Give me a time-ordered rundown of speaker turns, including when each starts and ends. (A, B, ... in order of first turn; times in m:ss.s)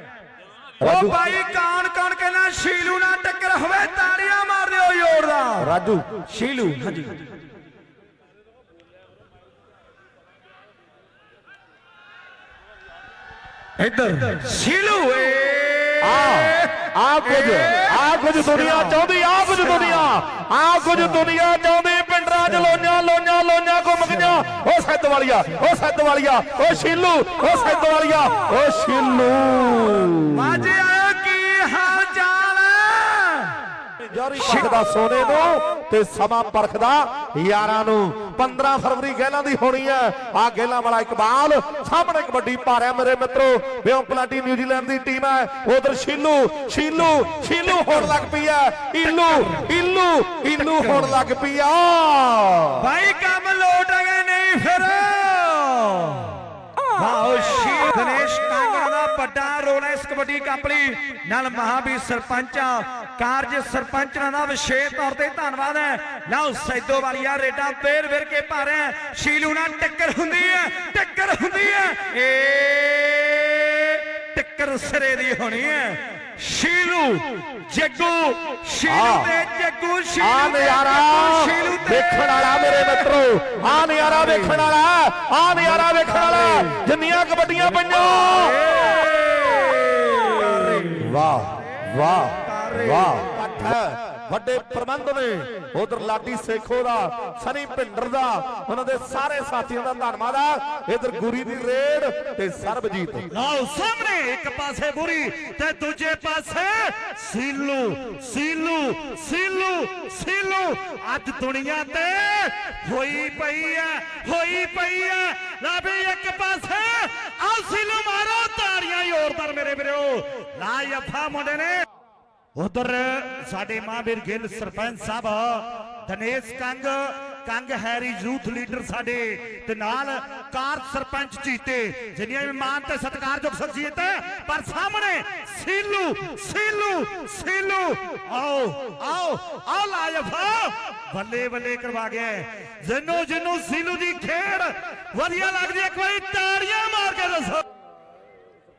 0:00.8-0:01.2 A
0:00.8-0:05.7 B
0:05.6-0:06.0 A
0:06.2-0:07.2 B
0:13.8-0:20.1 B
0:16.0-0:30.6 A
0:30.3-0:33.6 B
0:34.0-0:52.9 A
0:34.3-0:34.8 B
0:47.6-0:48.1 B
0:49.0-0:49.7 B
0:50.6-0:51.2 B
0:52.8-1:24.7 B
1:18.9-1:19.3 A
1:20.2-1:28.7 A
1:25.7-1:26.8 B
1:27.9-1:31.2 B
1:31.0-1:43.3 A
1:32.3-1:33.2 B
1:43.3-2:01.8 C
2:02.6-2:27.6 C